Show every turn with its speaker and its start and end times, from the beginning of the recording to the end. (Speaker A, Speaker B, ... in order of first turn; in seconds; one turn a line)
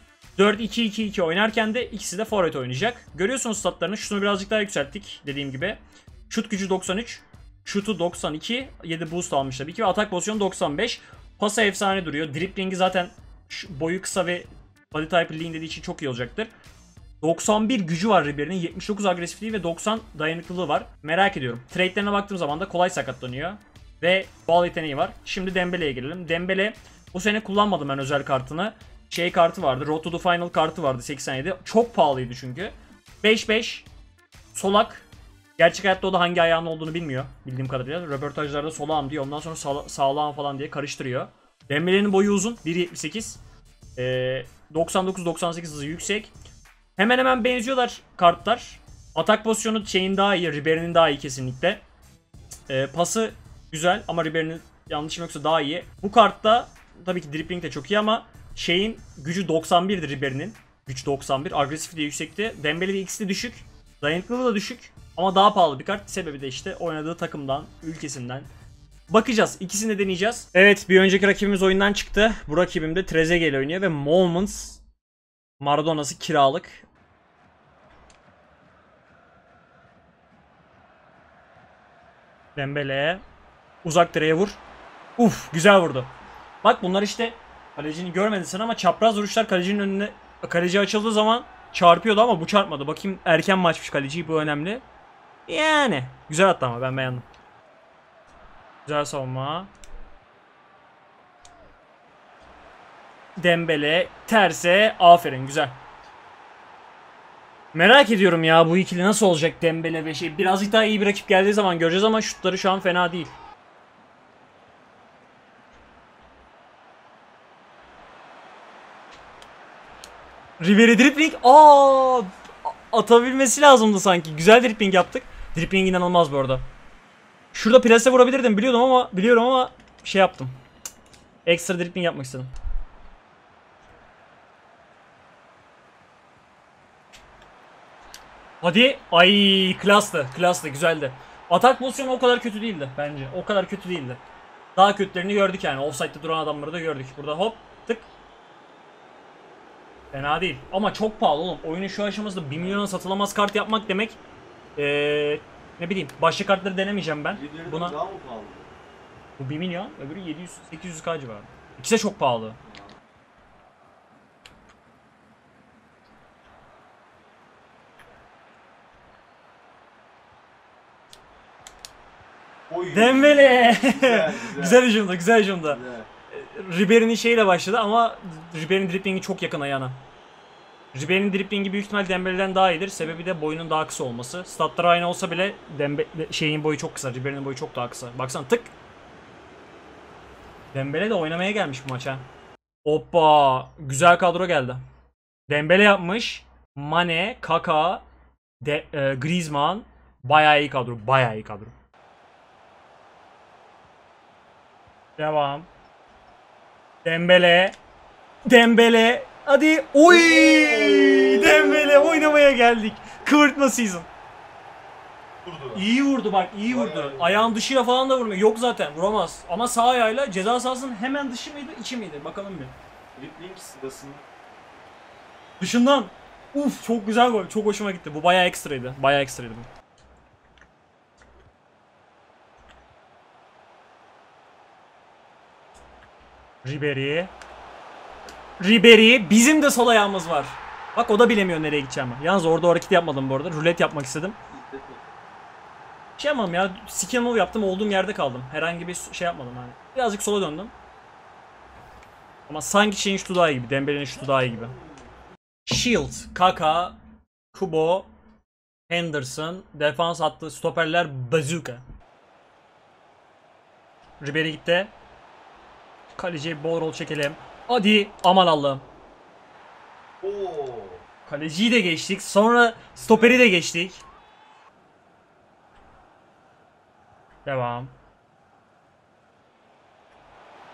Speaker A: 0.4-16.5
Speaker A: 17.2-33.9
Speaker A: 34.5-43.4
Speaker A: 44.0-46.3
Speaker A: 47.0-51.8
Speaker A: 52.7-68.5
Speaker A: 69.1-74.8
Speaker A: 75.6-76.9
Speaker A: 82.6-83.2
Speaker A: 83.8-84.6
Speaker A: 85.2-86.1
Speaker A: 86.6-94.8
Speaker A: 95.5-97.2
Speaker A: 98.9-99.7
Speaker A: 103.4-105.8
Speaker A: 107.7-113.3
Speaker A: 120.6-126.6
Speaker A: 127.5-130.5
Speaker A: 131.4-132.5
Speaker A: 138.6-144.2
Speaker A: 144.8-148.1
Speaker A: 150.1-154.2
Speaker A: 154.8-158.0
Speaker B: 157.3-158.7
Speaker A: 159.4-162.6
Speaker B: 172.7-174.8
Speaker A: 172.9-180.0
Speaker B: 175.7-176.1
Speaker A: 180.9-188.7
Speaker A: 190.7-192.3
Speaker A: 192.8-194.8
Speaker A: 195.5-198.0
Speaker A: 198.6-201.7
Speaker A: 205.2-205.7
Speaker A: 207.0-207.8
Speaker A: 208.5-214.1
Speaker B: 210.9-211.3
Speaker B: 215.4-215.8
Speaker A: 215.7-222.7
Speaker B: 216.7-217.4
Speaker B: 223.2-224.3
Speaker A: 225.6-229.7
Speaker A: 236.6-237.3
Speaker A: 238.6-244.4
Speaker B: 244.5-245.0
Speaker A: 246.2-250.7
Speaker A: 252.5-254.8
Speaker A: 255.7-257.0
Speaker A: 257.5-258.1
Speaker A: 258.9-261.8
Speaker A: 264.2-264.9
Speaker A: 266.2-268.9
Speaker B: 270.2-271.0
Speaker A: 271.3-274.0
Speaker A: 277.4-277.9